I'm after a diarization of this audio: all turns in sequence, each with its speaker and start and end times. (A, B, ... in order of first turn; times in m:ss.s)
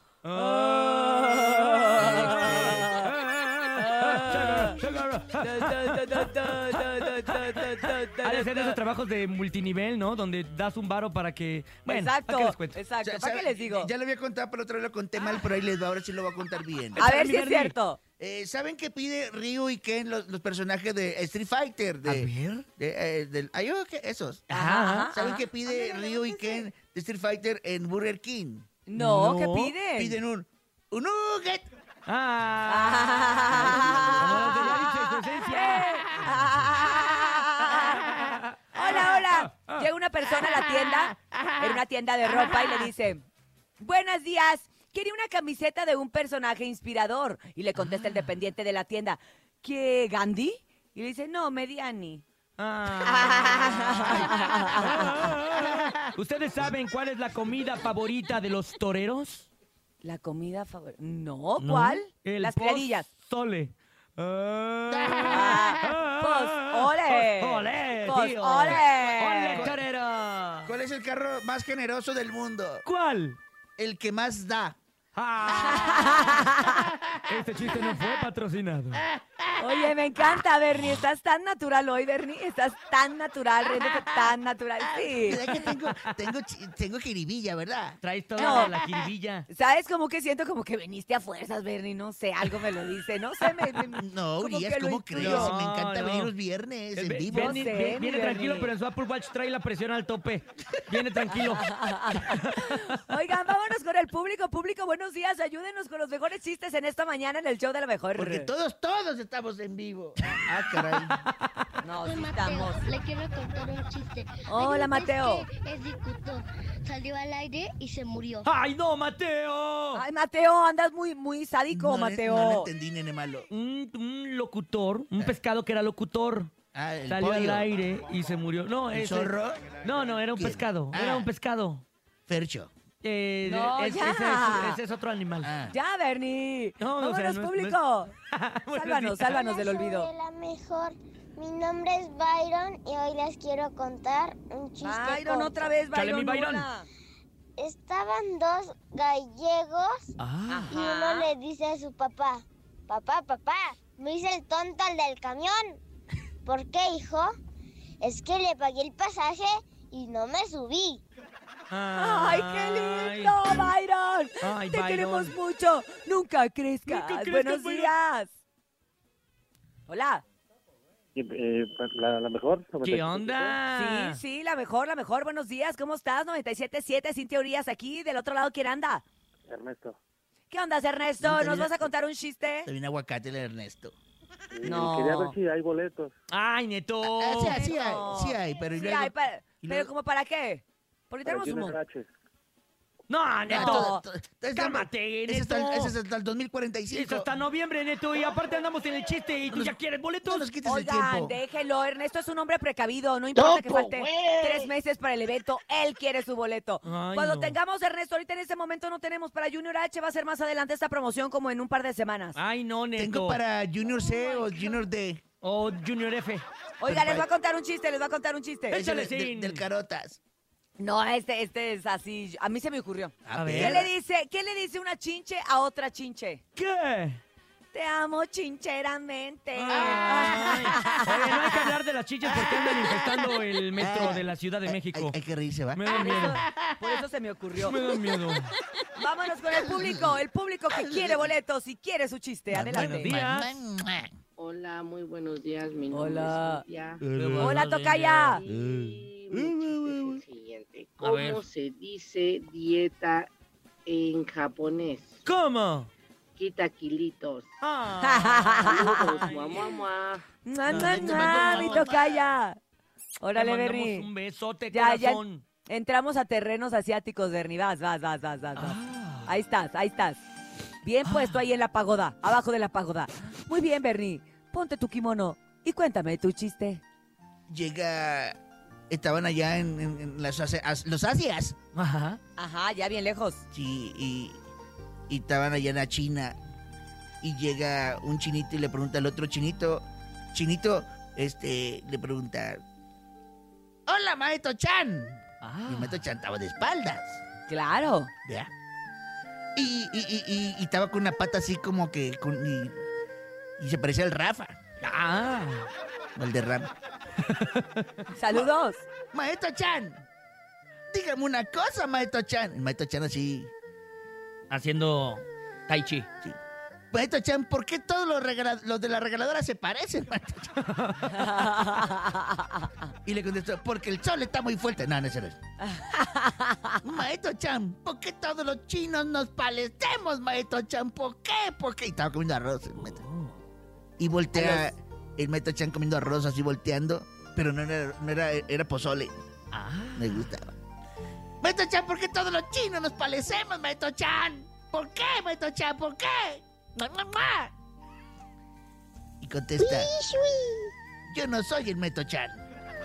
0:00.2-0:12.8 A
0:00.6-0:03.1 B
0:02.0-0:02.9 C
0:03.8-0:04.8 B
0:05.4-0:08.8 B
0:11.9-0:13.9 B
0:13.0-0:17.0 C
0:17.0-0:17.7 A
0:17.0-0:18.0 B
0:18.2-0:24.5 C
0:22.0-0:22.6 A
0:24.5-0:25.1 A
0:24.5-0:26.6 B
0:25.1-0:28.7 C
0:28.9-0:30.2 B
0:28.9-0:29.7 A
0:29.9-0:31.7 C
0:32.1-0:36.7 A
0:32.7-0:38.1 B
0:33.6-0:34.7 C
0:38.0-0:39.8 A
0:38.7-0:43.2 B
0:40.7-0:41.8 C
0:43.8-0:52.2 B
0:47.8-0:48.2 A
0:52.6-0:59.5 A
0:53.0-0:55.3 B
0:55.5-0:56.0 C
1:00.0-1:03.1 B
1:01.6-1:10.7 A
1:04.9-1:05.8 C
1:05.3-1:09.7 B
1:09.5-1:09.8 C
1:10.6-1:12.8 C
1:12.8-1:13.4 A
1:13.8-1:14.8 C
1:15.1-1:16.5 A
1:15.5-1:16.9 B
1:15.6-1:16.1 C
1:17.2-1:19.1 A
1:19.2-1:19.9 C
1:19.6-1:25.4 B
1:23.8-1:24.3 C
1:24.9-1:29.0 C
1:25.6-1:26.1 A
1:28.0-1:29.5 A
1:28.4-1:28.7 B
1:29.5-1:35.5 B
1:33.9-1:37.6 C
1:35.1-1:36.3 A
1:36.9-1:42.9 A
1:37.3-1:38.7 B
1:41.4-1:48.5 B
1:48.1-1:51.2 C
1:50.9-1:51.5 A
1:51.8-1:52.8 B
1:52.0-1:58.5 D
1:54.5-1:55.5 B
1:58.4-2:00.0 A
1:59.9-2:02.7 B
2:01.7-2:03.5 C
2:03.5-2:06.5 A
2:06.7-2:07.7 C
2:07.1-2:11.8 A
2:08.9-2:11.3 C
2:12.3-2:12.7 C
2:13.0-2:15.5 A
2:13.5-2:14.8 B
2:15.4-2:15.8 C
2:15.7-2:18.1 B
2:16.8-2:17.8 A
2:18.3-2:19.4 A
2:18.7-2:20.1 B
2:19.2-2:25.7 E
2:24.8-2:26.9 B
2:25.9-2:26.7 A
2:27.6-2:30.1 E
2:30.2-2:30.7 A
2:30.5-2:31.3 B
2:30.7-2:35.8 E
2:36.4-2:37.3 E
2:38.0-2:41.0 E
2:41.7-2:43.7 A
2:42.0-2:48.3 B
2:44.4-2:45.3 A
2:46.9-2:47.9 A
2:49.9-2:50.2 B
2:51.1-2:53.6 F
2:52.8-2:54.2 A
2:53.7-2:59.0 B
2:59.5-3:00.0 F
3:00.5-3:02.7 B
3:01.2-3:01.9 C
3:02.6-3:03.9 C
3:04.5-3:06.1 F
3:04.6-3:05.3 B
3:06.3-3:07.6 A
3:07.0-3:09.9 C
3:07.5-3:11.8 B
3:11.2-3:12.1 F
3:13.1-3:14.0 A
3:13.5-3:17.3 C
3:13.5-3:14.0 B
3:14.5-3:16.0 A
3:16.9-3:20.5 A
3:19.5-3:21.4 C
3:20.6-3:32.4 B
3:26.8-3:27.6 A
3:32.4-3:33.4 A
3:32.9-3:35.2 C
3:35.4-3:36.4 A
3:36.8-3:38.8 B
3:36.8-3:37.3 C
3:38.7-3:39.6 A
3:38.7-3:40.2 C
3:40.8-3:46.4 B
3:43.2-3:43.9 C
3:43.3-3:43.8 A
3:46.6-3:47.2 A
3:47.7-3:51.6 B
3:49.5-3:55.2 A
3:49.7-3:50.9 C
3:52.3-3:57.0 C
3:55.7-3:56.4 A
3:55.9-3:57.8 B
3:57.6-3:58.6 A
3:58.9-4:03.1 B
3:59.6-4:00.2 C
4:00.7-4:01.3 C
4:02.5-4:04.1 C
4:02.7-4:03.6 A
4:04.4-4:07.0 G
4:05.9-4:06.6 B
4:07.0-4:07.6 C
4:07.1-4:08.4 A
4:07.4-4:08.4 B
4:08.4-4:13.3 G
4:08.5-4:10.2 C
4:11.0-4:11.4 A
4:13.8-4:15.1 G
4:15.2-4:15.9 A
4:16.4-4:17.5 G
4:17.6-4:19.8 A
4:18.0-4:19.3 B
4:18.6-4:20.2 G
4:20.4-4:22.6 B
4:20.6-4:22.0 A
4:21.0-4:21.8 G
4:23.2-4:24.1 B
4:23.3-4:25.4 A
4:24.7-4:30.2 B
4:28.6-4:29.3 A
4:30.8-4:36.8 B
4:31.0-4:31.4 A
4:37.5-4:38.4 C
4:38.9-4:41.6 C
4:41.7-4:42.2 A
4:42.4-4:43.4 B
4:43.5-4:44.4 C
4:45.1-4:46.4 C
4:47.2-4:52.6 C
4:53.9-4:57.2 C
4:55.4-4:56.0 A
4:57.5-4:58.1 B
4:59.6-5:02.8 C
5:03.6-5:04.6 C
5:04.8-5:05.7 A
5:06.2-5:06.7 C
5:07.2-5:07.8 A
5:08.1-5:08.8 B
5:09.1-5:10.0 C
5:10.9-5:13.5 C
5:14.5-5:16.1 A
5:16.9-5:20.5 C
5:20.6-5:21.3 A
5:21.1-5:22.6 B
5:23.0-5:25.4 C
5:25.6-5:26.8 B
5:26.8-5:33.0 C
5:32.8-5:33.4 A
5:34.0-5:39.2 C
5:34.3-5:34.7 B
5:39.5-5:40.3 A
5:40.0-5:40.5 C
5:41.4-5:47.5 C
5:49.2-5:49.9 C
5:49.8-5:50.6 E
5:51.1-5:52.4 C